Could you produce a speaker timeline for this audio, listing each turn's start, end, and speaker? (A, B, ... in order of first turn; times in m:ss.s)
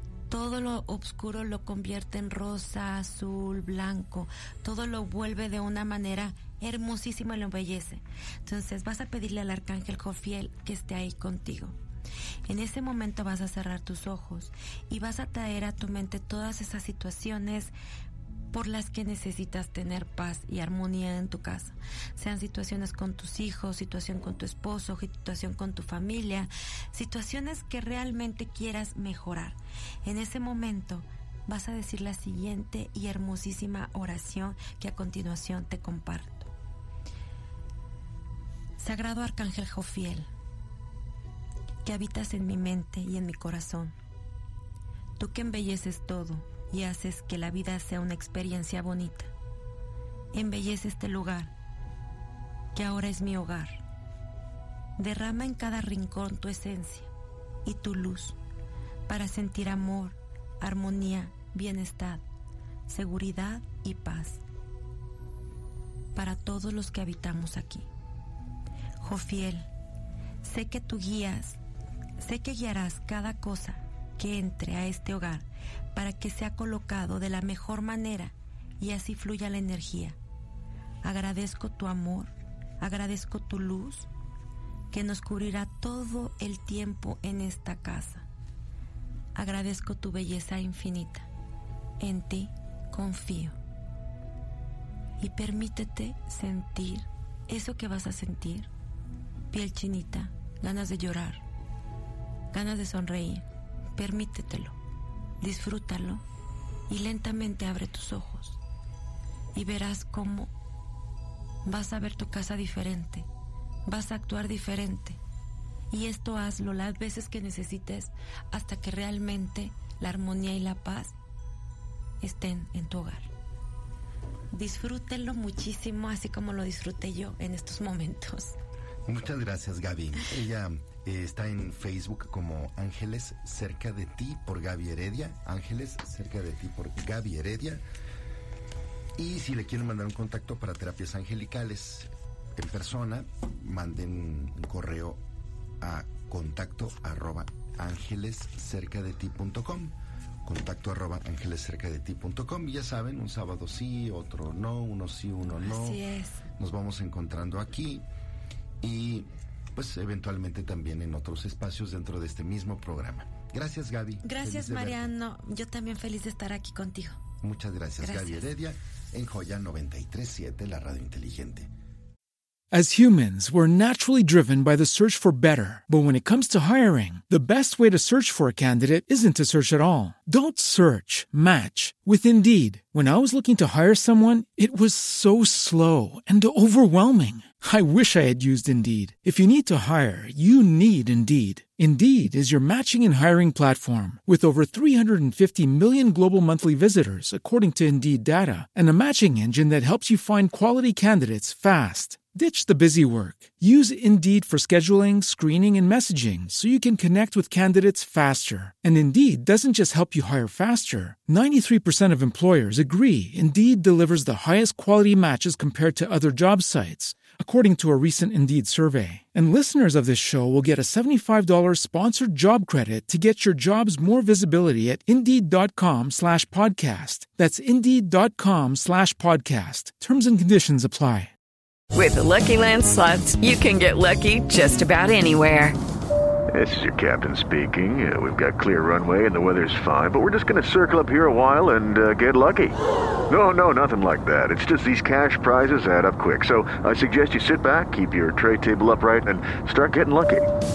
0:00.3-0:11.8 A
0:12.5-0:17.7 A
0:18.5-0:36.5 A
0:38.8-0:40.3 A
0:41.8-0:44.0 A
0:45.2-0:49.3 A
0:50.3-0:51.5 A
0:52.8-0:53.8 A
0:55.0-0:57.1 A
0:57.6-0:58.4 A
0:59.1-1:02.2 A
1:02.9-1:04.4 A
1:06.2-1:07.9 A
1:09.0-1:09.7 A
1:10.4-1:11.6 A
1:12.2-1:20.2 A
1:21.0-1:24.1 A
1:24.9-1:28.3 A
1:29.4-1:31.3 A
1:32.0-1:33.6 A
1:35.2-1:38.7 A
1:39.5-1:41.4 A
1:42.5-1:43.4 A
1:44.0-1:44.8 A
1:45.4-1:46.2 A
1:46.9-1:48.6 A
1:49.6-1:50.5 A
1:51.6-1:53.3 A
1:53.9-1:55.2 A
1:55.9-2:01.2 A
2:02.2-2:03.3 A
2:04.5-2:08.6 A
2:09.1-2:17.8 B
2:19.2-2:25.2 B
2:25.8-2:36.0 B
2:35.6-2:36.4 A
2:36.6-2:38.0 B
2:38.8-2:45.1 B
2:44.2-2:47.2 A
2:47.4-2:51.7 B
2:48.0-2:48.5 A
2:52.7-3:51.3 C
3:51.9-3:55.8 D
3:56.5-4:02.8 E
4:03.3-4:10.5 E